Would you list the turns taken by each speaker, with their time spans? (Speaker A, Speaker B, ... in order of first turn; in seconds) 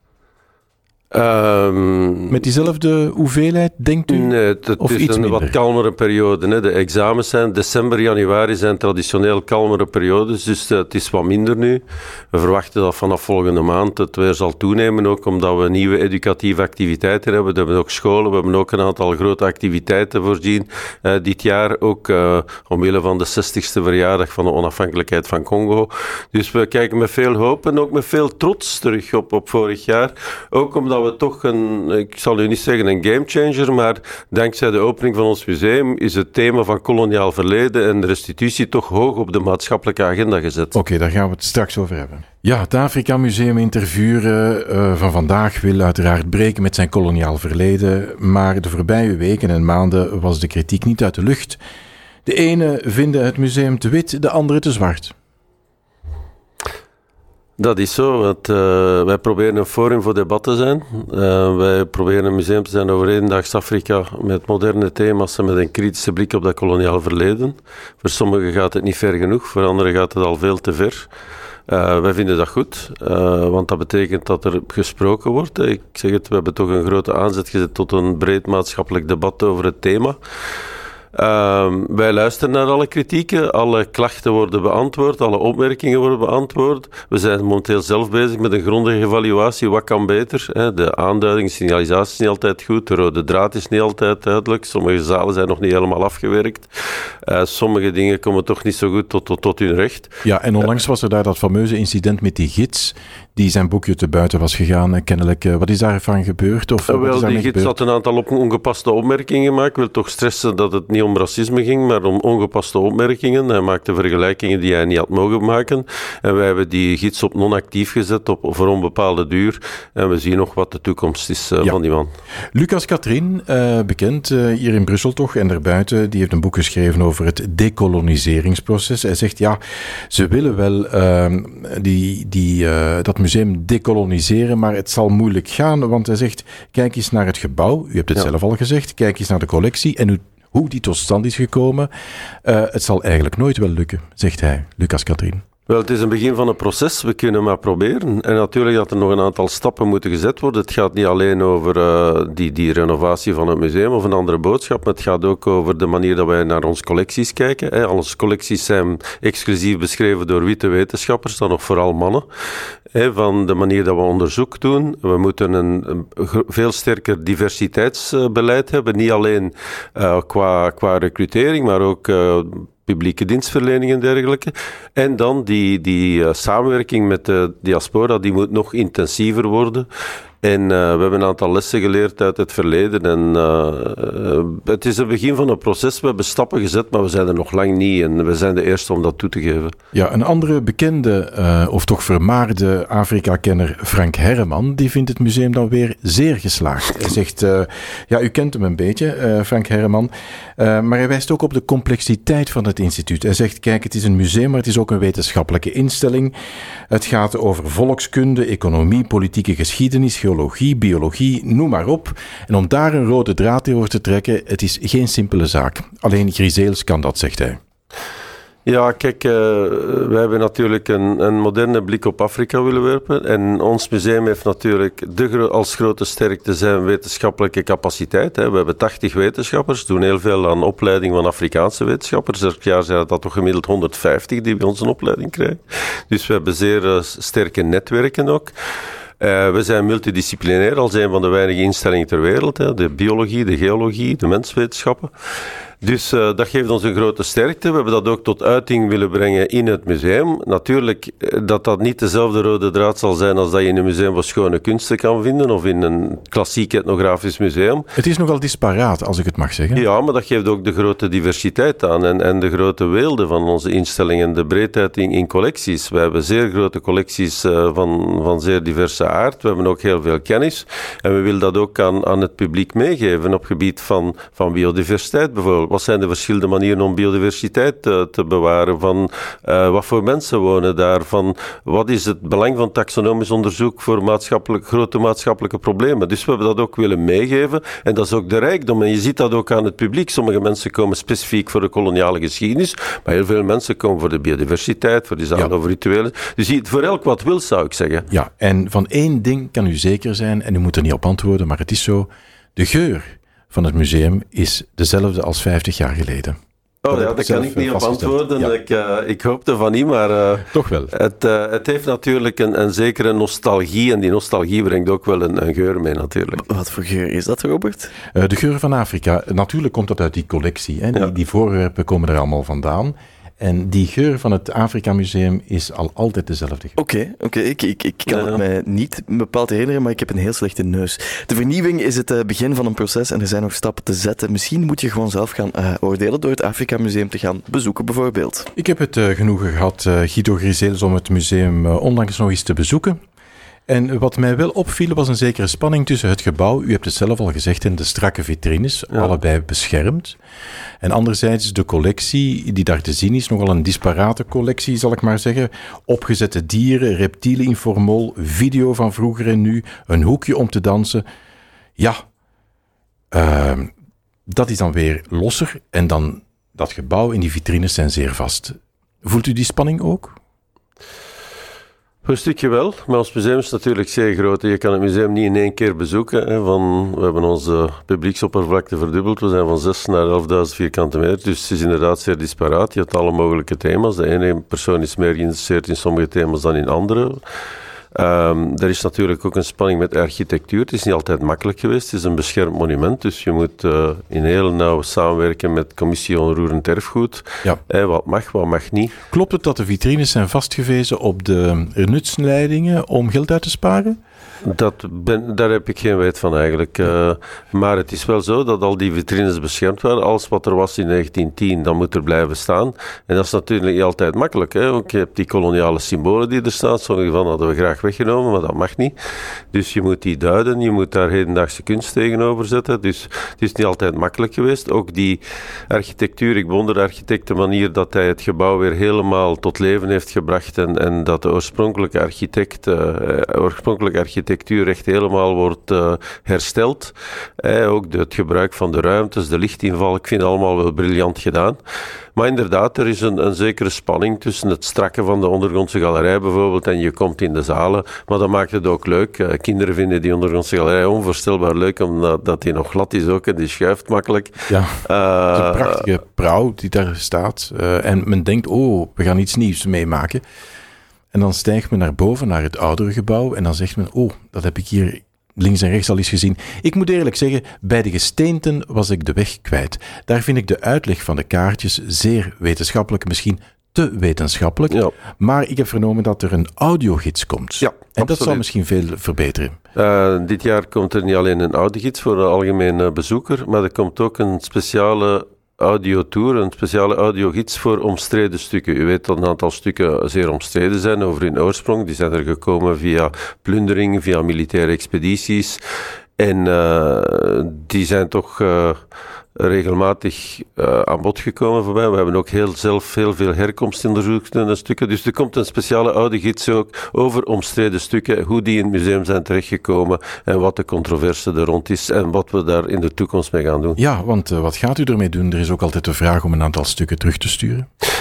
Speaker A: 1.1-2.4, 4.1-40.8, 57.6-71.1, 71.7-80.2, 81.1-96.7, 97.2-100.7, 106.9-122.1, 145.7-162.3, 162.9-179.9, 180.4-189.7, 218.7-238.5, 239.2-245.1, 245.8-257.9, 259.8-298.1, 306.8-316.4, 328.1-328.4, 372.0-387.2, 387.9-398.9, 404.4-418.9, 419.5-441.6, 442.1-455.8, 474.7-474.9, 477.6-478.4, 479.8-495.6, 496.2-498.8, 499.4-513.8
Speaker B: 2.3-5.6, 40.7-51.6, 52.2-55.1, 100.2-107.8, 122.5-141.9, 142.4-145.4, 189.9-206.3, 206.9-217.6, 258.0-259.8, 298.1-306.4, 306.9-308.5, 310.5-310.9, 318.1-326.8, 338.6-343.0, 343.7-350.2, 350.8-361.0, 363.1-363.7, 364.3-370.1, 399.1-404.0, 454.5-454.8, 455.3-460.2, 461.1-479.5, 513.8-517.7
Speaker C: 316.5-317.9, 326.8-338.5